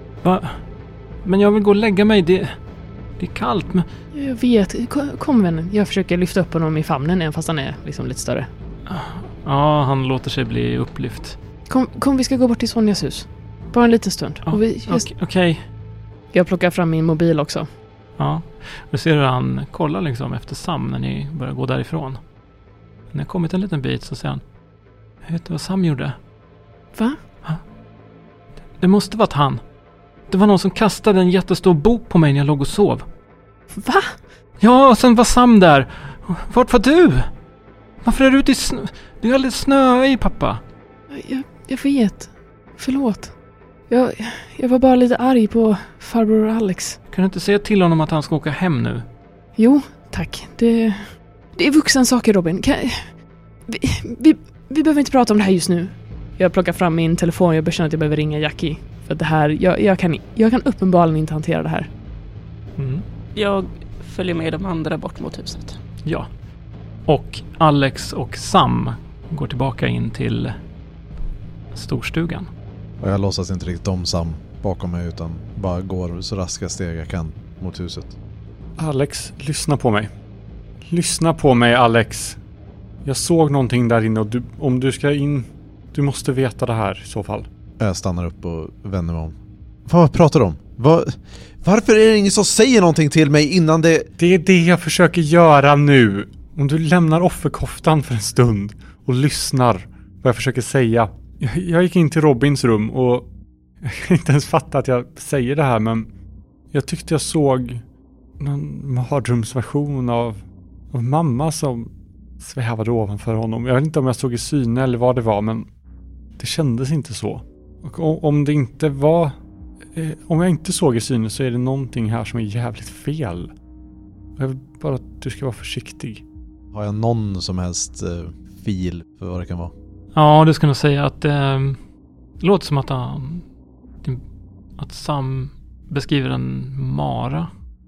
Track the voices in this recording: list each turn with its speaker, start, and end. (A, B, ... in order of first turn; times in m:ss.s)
0:00.2-0:00.6 A
0:01.2-0:02.6 A
0:03.2-0:03.9 A
0:04.1-0:08.5 B
0:08.9-0:11.4 A
0:11.7-0:15.1 B
0:14.4-0:15.6 A
0:16.3-0:17.7 B
0:18.2-0:22.2 A
0:23.1-0:24.4 A
0:25.2-0:26.2 A
0:27.0-0:27.2 B
0:28.8-0:29.6 A
0:30.3-0:33.0 A
0:33.8-0:34.2 B
0:34.6-0:37.3 A
0:38.0-0:40.6 A
0:41.1-0:43.3 B
0:43.9-0:47.0 B
0:47.1-0:49.0 A
0:49.6-1:01.9 B
1:02.8-1:03.0 A
1:03.4-1:05.8 C
1:06.0-1:06.3 A
1:07.1-1:10.6 A
1:11.7-1:12.5 A
1:13.0-1:18.2 D
1:18.8-1:20.1 E
1:20.8-1:22.4 E
1:23.0-1:27.5 E
1:27.8-1:34.1 D
1:34.2-1:43.3 E
1:43.8-1:46.1 E
1:46.7-1:47.8 E
1:48.4-1:55.7 E
1:56.4-1:59.3 E
1:59.9-2:03.5 E
2:04.4-2:06.2 E
2:06.7-2:09.7 D
2:10.1-2:11.8 A
2:12.4-2:13.5 A
2:14.8-2:17.5 A